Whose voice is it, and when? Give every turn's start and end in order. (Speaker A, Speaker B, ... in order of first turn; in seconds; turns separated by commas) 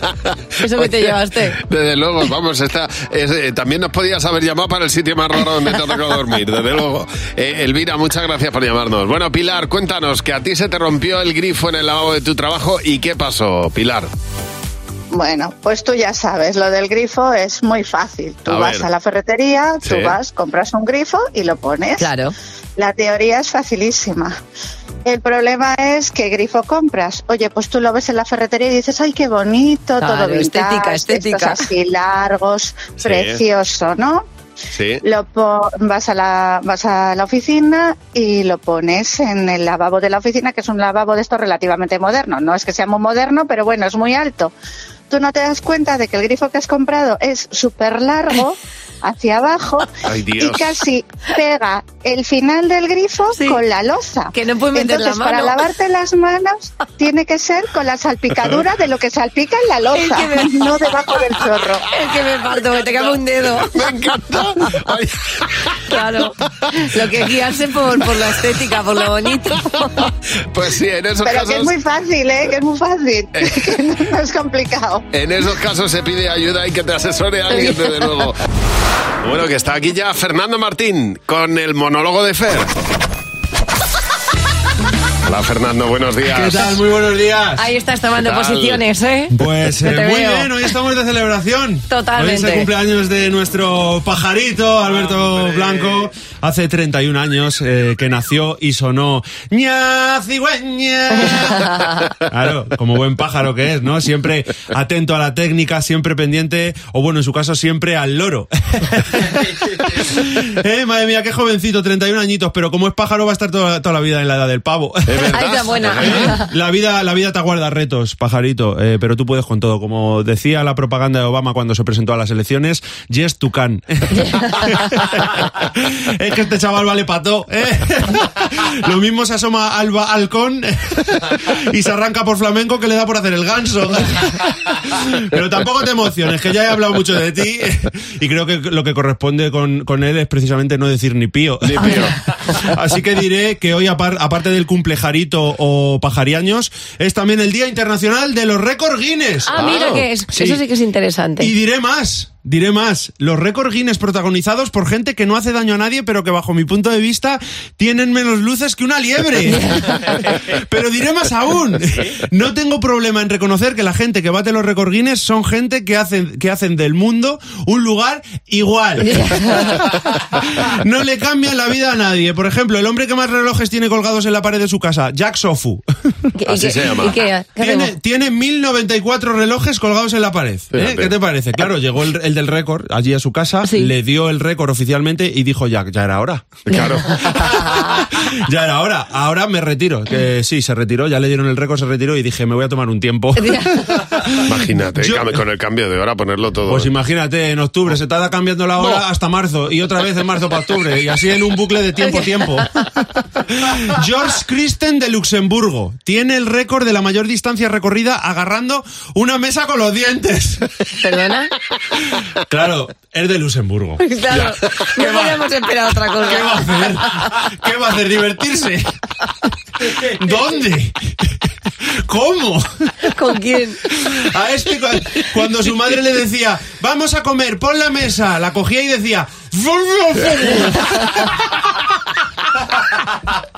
Speaker A: 0.6-1.6, Speaker B: 0.8-14.1, Speaker C: 15.1-22.1, Speaker B: 18.5-18.9, Speaker B: 19.8-20.2, Speaker A: 22.0-22.3, Speaker C: 22.8-24.4, Speaker C: 25.1-34.3, Speaker A: 30.0-31.7, Speaker B: 33.0-33.4, Speaker B: 34.7-35.0, Speaker C: 35.0-44.5, Speaker C: 45.1-61.9, Speaker B: 50.0-50.8, Speaker A: 53.3-53.6, Speaker A: 54.3-55.6, Speaker A: 59.9-60.8, Speaker A: 61.9-63.8, Speaker B: 63.6-65.3, Speaker A: 65.9-70.0, Speaker B: 70.5-71.8, Speaker C: 71.2-75.1, Speaker B: 73.4-73.7, Speaker B: 75.1-78.4, Speaker B: 79.2-82.7, Speaker B: 85.3-86.8, Speaker D: 86.3-87.7, Speaker A: 87.6-90.5, Speaker B: 88.2-88.8, Speaker D: 89.3-101.7, Speaker A: 91.9-92.7, Speaker B: 94.8-96.1, Speaker A: 101.2-101.9, Speaker D: 102.3-115.4, Speaker B: 115.1-116.4, Speaker A: 115.3-116.5, Speaker D: 116.0-149.6, Speaker A: 124.1-124.9, Speaker B: 141.6-142.1, Speaker A: 149.5-151.5, Speaker B: 149.5-150.6, Speaker D: 151.4-169.9, Speaker A: 159.5-160.1, Speaker A: 169.0-169.8, Speaker D: 170.4-175.8, Speaker A: 176.4-177.9, Speaker B: 176.5-177.2, Speaker D: 177.6-195.4, Speaker B: 180.7-181.2, Speaker A: 183.6-183.9, Speaker B: 186.7-187.1, Speaker A: 186.8-188.0, Speaker A: 193.4-194.0, Speaker B: 194.5-196.9, Speaker D: 196.7-202.7, Speaker A: 202.0-202.6, Speaker D: 203.5-210.7, Speaker A: 211.0-211.5, Speaker D: 212.5-214.0, Speaker A: 214.0-217.0, Speaker D: 215.0-215.4, Speaker D: 216.2-218.9, Speaker D: 220.0-221.1, Speaker D: 222.1-222.7, Speaker A: 223.2-223.8, Speaker D: 224.1-231.3, Speaker A: 230.3-231.2